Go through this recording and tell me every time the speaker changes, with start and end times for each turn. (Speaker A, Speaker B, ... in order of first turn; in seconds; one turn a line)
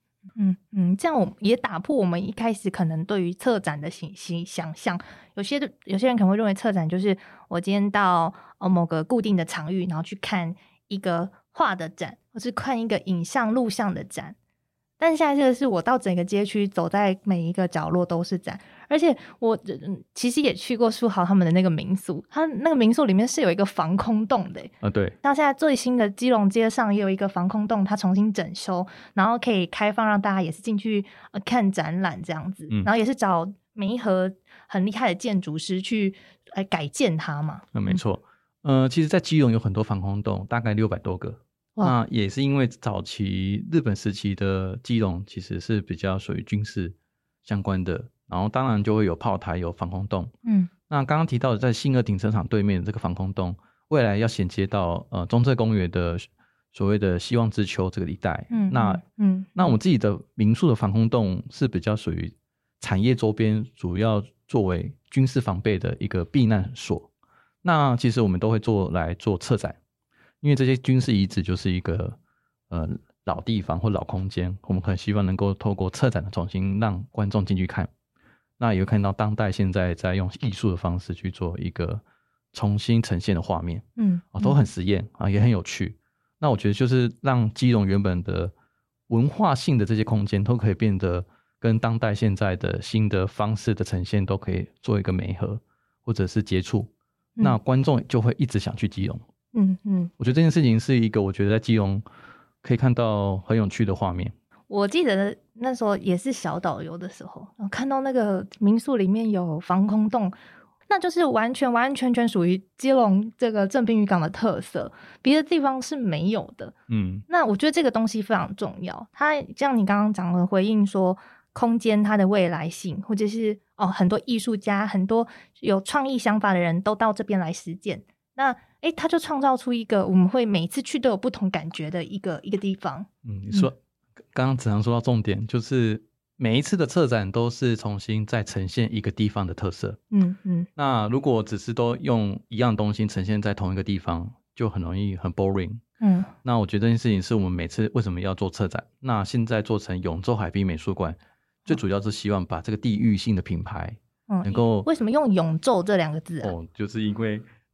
Speaker A: 0.4-14.3
Speaker A: 15.0-38.0
Speaker B: 24.8-25.1
Speaker B: 37.7-50.3
Speaker A: 50.4-50.7
Speaker B: 50.9-59.0
Speaker A: 58.5-59.7
Speaker B: 59.5-67.1
Speaker B: 67.6-69.8
Speaker B: 70.4-72.2
Speaker B: 72.7-77.9
Speaker B: 78.6-88.5
Speaker A: 84.0-84.6
Speaker B: 89.1-99.2
Speaker A: 99.5-100.1
Speaker B: 100.2-102.0
Speaker B: 102.6-104.3
Speaker A: 104.7-110.3
Speaker A: 110.9-116.7
Speaker B: 116.9-117.2
Speaker A: 117.3-133.7
Speaker B: 133.2-133.8
Speaker B: 134.3-140.0
Speaker A: 140.1-140.7
Speaker B: 140.8-145.8
Speaker A: 146.0-146.3
Speaker B: 146.4-154.9
Speaker A: 154.3-156.5
Speaker B: 156.4-157.4